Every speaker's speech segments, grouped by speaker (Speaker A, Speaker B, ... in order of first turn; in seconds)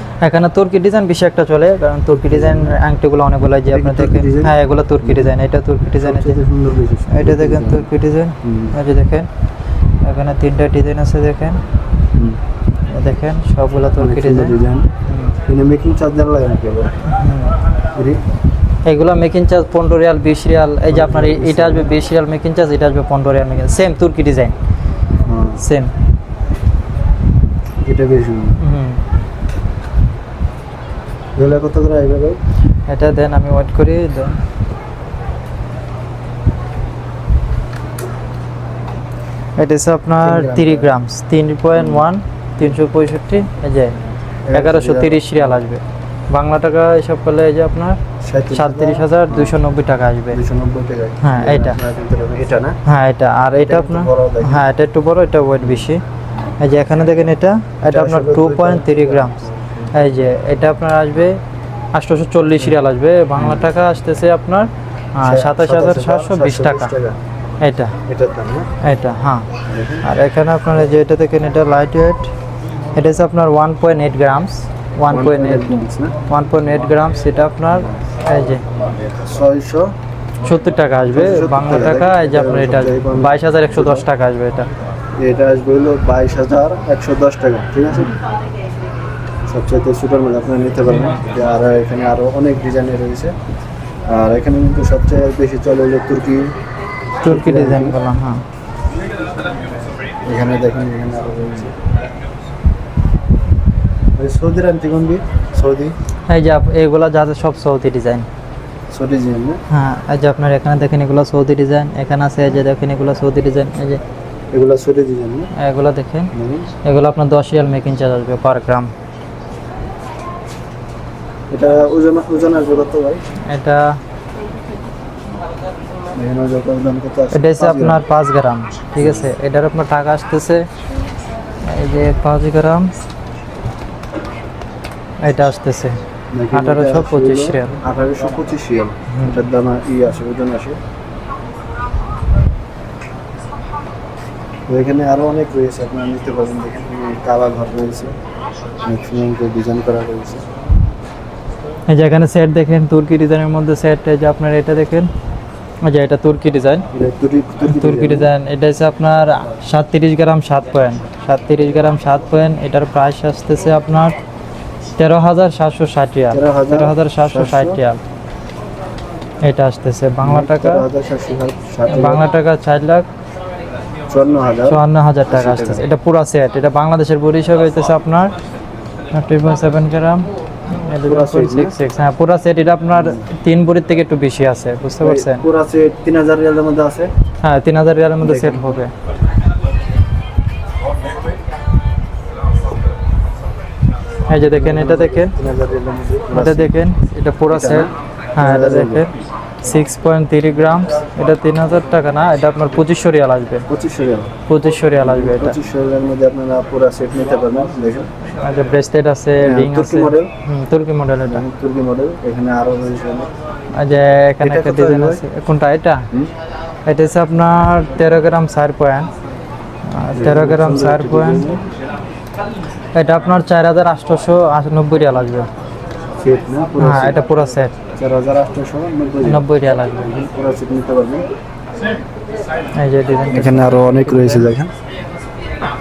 Speaker A: 0.2-6.4, 7.1-9.3, 10.0-11.6, 12.9-15.3, 17.1-17.5, 18.8-24.5, 25.6-25.9, 28.6-29.0, 32.9-34.4, 39.6-44.0, 44.5-48.0, 48.5-50.4, 51.2-51.8, 52.8-56.0, 56.6-59.4, 59.9-61.4, 61.9-66.9, 67.6-68.0, 68.8-69.5, 70.0-72.3, 72.9-75.7, 76.3-78.6, 80.4-84.7, 90.9-91.2, 97.2-98.4, 106.3-108.3, 109.7-114.0, 115.5-116.3, 116.8-118.9, 123.5-124.0, 127.3-130.6, 131.6-132.9, 135.2-136.0, 136.5-137.7, 139.1-139.5, 151.9-155.1, 155.8-156.9, 157.6-164.2, 165.0-168.0, 169.4-170.8, 171.9-173.1, 174.7-178.3, 179.1-185.4, 187.4-188.9, 194.3-195.3, 196.3-203.7, 204.5-205.6, 208.4-211.4, 213.7-216.1, 216.8-219.1, 219.9-221.4, 222.9-225.5, 226.8-227.7, 229.2-230.2, 232.8-234.5
Speaker B: 2.3-2.8, 3.7-5.3, 6.0-7.9, 8.4-8.7, 14.0-14.9, 15.4-16.9, 17.9-18.2, 20.9-21.9, 25.2-25.6, 27.9-28.6, 31.4-32.4, 40.2-40.9, 41.7-42.0, 44.5-45.6, 48.2-49.5, 50.3-52.8, 53.6-54.6, 57.8-59.9, 63.4-63.7, 65.2-67.2, 68.0-68.7, 69.7-70.0, 75.1-76.2, 77.7-78.0, 79.0-79.9, 81.1-84.1, 85.2-88.1, 89.5-93.3, 94.1-96.5, 97.2-98.0, 100.2-101.7, 104.2-106.0, 108.9-109.6, 114.5-115.5, 116.3-116.7, 121.5-123.2, 126.1-128.0, 129.0-129.3, 136.3-140.8, 144.7-148.1, 148.8-150.4, 156.9-158.3, 166.3-167.8, 170.2-172.2, 174.1-175.8, 181.0-181.8, 182.9-183.2, 185.0-187.1, 188.2-188.8, 194.4-196.7, 197.5-199.1, 203.7-204.3, 205.0-208.1, 209.4-210.3, 211.3-213.3, 214.4-215.2, 220.1-221.6, 226.2-227.2, 227.9-229.4, 230.0-231.3, 233.3-234.7